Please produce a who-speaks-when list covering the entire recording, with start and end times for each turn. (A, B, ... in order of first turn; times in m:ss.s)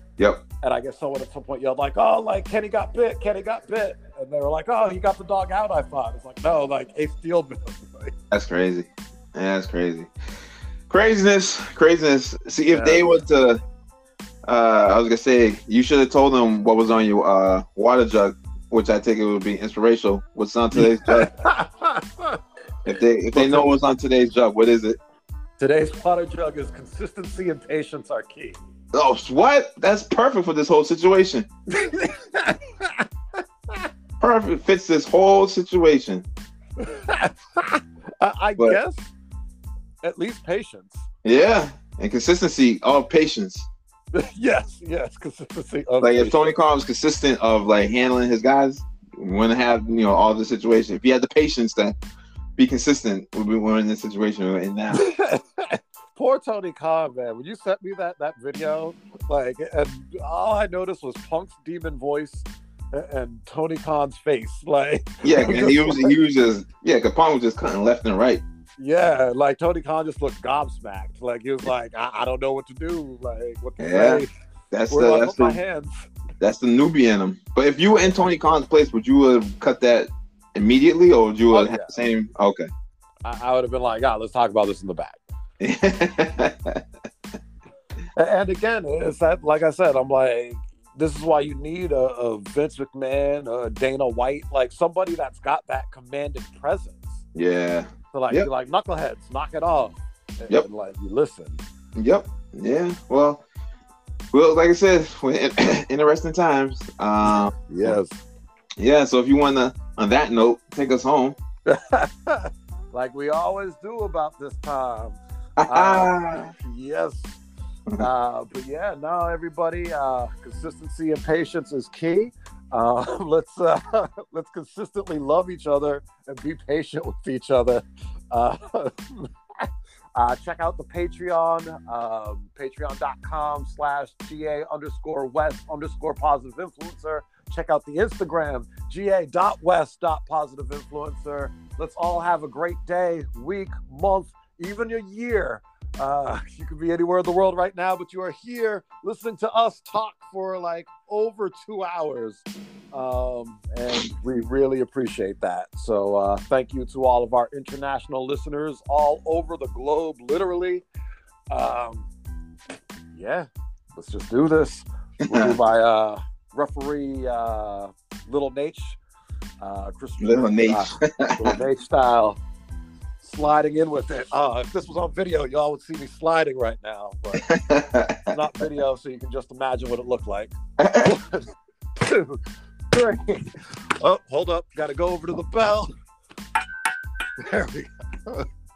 0:00.2-0:00.4 A
0:00.6-0:08.1 B
0:08.3-0:10.1 A
0:10.9-0:13.6 A
0:12.7-0:13.2 B
0:14.4-0:21.3 A
0:20.7-0:22.4 B
0:22.8-0:25.0 A
0:23.3-0:23.8 B
0:25.6-0:28.6 B
0:28.9-0:31.5 A
0:31.7-0:33.1 B
0:34.2-0:36.3 A
0:36.8-0:39.1 B
0:40.0-0:41.1 B
0:41.2-0:43.7 A
0:44.1-0:46.5 B
0:46.0-0:52.0 A
0:52.6-0:55.1 A
0:54.9-1:06.2 B
1:05.2-1:08.4 A
1:08.8-1:14.3 B
1:13.8-1:15.6 A
1:14.9-1:16.1 B
1:16.4-1:22.7 A
1:21.5-1:22.0 B
1:23.2-1:25.2 B
1:25.6-1:26.8 A
1:28.2-1:37.2 B
1:37.4-1:38.5 A
1:38.1-1:41.6 B
1:42.0-1:43.4 A
1:44.3-1:48.0 A
1:47.2-1:48.2 B
1:48.8-1:51.4 A
1:51.7-1:57.4 B
1:55.6-1:56.5 A
1:58.0-2:40.8 B
2:41.5-2:42.1 B
2:43.1-2:49.0 B
2:45.3-2:45.6 A
2:49.6-2:52.4 B
2:50.2-2:51.6 A
2:53.2-2:57.5 B
2:57.4-2:58.3 A
2:58.3-3:01.5 B
3:00.8-3:01.1 A
3:02.0-3:05.9 B
3:07.4-3:08.5 B